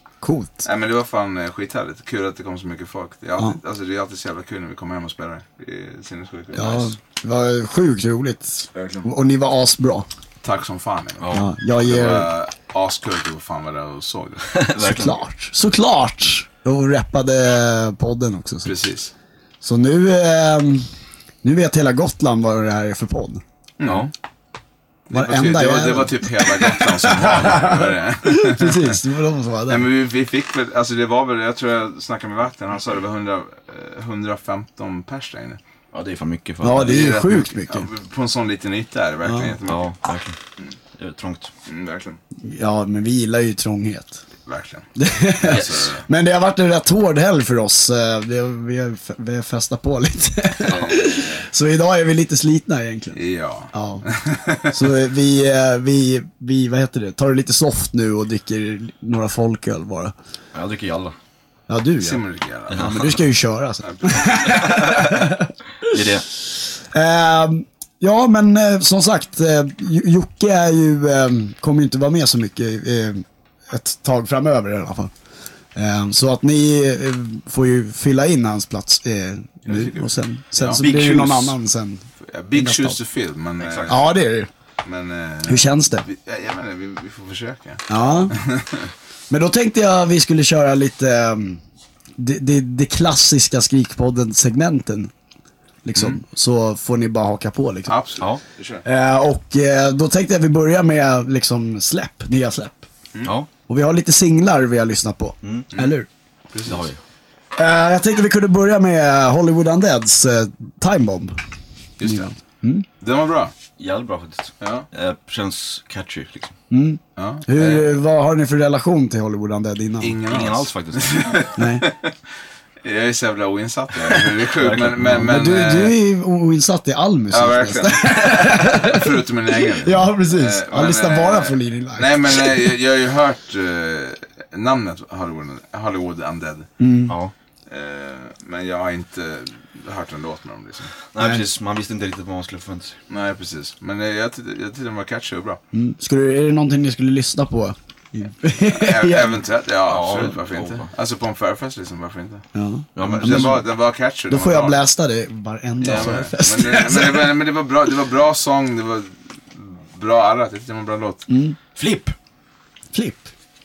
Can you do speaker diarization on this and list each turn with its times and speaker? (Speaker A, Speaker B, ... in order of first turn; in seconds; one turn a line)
Speaker A: 0.2-0.7
Speaker B: 0.6-6.9
Speaker A: 6.5-10.1
Speaker B: 8.7-9.1
Speaker B: 10.4-14.5
Speaker C: 11.2-11.5
Speaker A: 11.3-12.3
Speaker C: 14.5-15.2
Speaker A: 14.8-18.7
Speaker B: 18.6-19.1
Speaker A: 19.6-20.9
Speaker A: 21.4-23.4
Speaker B: 23.8-24.1
Speaker C: 23.8-24.1
Speaker B: 25.1-29.0
Speaker A: 25.1-29.8
Speaker B: 29.7-35.6
Speaker C: 35.9-37.1
Speaker A: 36.6-37.9
Speaker B: 36.8-39.9
Speaker A: 39.2-39.5
Speaker C: 39.6-40.4
Speaker C: 41.0-41.5
Speaker B: 41.7-42.2
Speaker A: 42.4-44.2
Speaker B: 44.5-44.9
Speaker A: 45.0-53.2
Speaker B: 45.4-46.0
Speaker C: 45.5-45.9
Speaker B: 50.6-51.5
Speaker B: 53.1-54.9
Speaker A: 53.7-54.1
Speaker A: 54.7-60.1
Speaker C: 60.5-61.1
Speaker A: 61.7-75.1
Speaker B: 62.0-63.0
Speaker C: 62.7-63.2
Speaker B: 63.8-65.0
Speaker C: 65.8-66.2
Speaker A: 75.7-83.0
Speaker B: 79.7-80.8
Speaker C: 80.8-81.5
Speaker B: 82.2-84.1
Speaker C: 83.6-84.0
Speaker A: 83.9-84.5
Speaker B: 84.8-88.9
Speaker A: 85.5-86.0
Speaker A: 87.9-88.3
Speaker A: 89.3-91.6
Speaker A: 92.2-95.1
Speaker A: 95.8-98.0
Speaker B: 97.9-98.8
Speaker A: 98.8-102.8
Speaker C: 103.2-103.5
Speaker A: 103.7-106.1
Speaker C: 105.4-105.7
Speaker B: 106.5-106.8
Speaker C: 106.7-107.0
Speaker A: 107.5-111.4
Speaker B: 112.0-112.3
Speaker A: 112.0-112.8
Speaker B: 113.0-113.5
Speaker C: 113.8-116.5
Speaker B: 114.6-114.8
Speaker A: 116.7-120.2
Speaker B: 117.2-118.0
Speaker B: 120.0-122.1
Speaker C: 120.2-121.3
Speaker A: 121.5-121.9
Speaker B: 122.8-125.9
Speaker C: 124.0-125.3
Speaker A: 125.2-129.1
Speaker B: 127.3-136.7
Speaker A: 129.8-132.7
Speaker A: 136.8-137.1
Speaker B: 137.7-140.9
Speaker C: 141.1-142.9
Speaker B: 143.1-145.6
Speaker A: 145.7-149.4
Speaker B: 148.7-152.4
Speaker C: 149.9-150.9
Speaker A: 152.5-153.6
Speaker C: 152.9-153.6
Speaker B: 153.1-154.8
Speaker A: 154.3-157.3
Speaker B: 155.8-161.2
Speaker A: 161.3-162.1
Speaker A: 162.9-163.3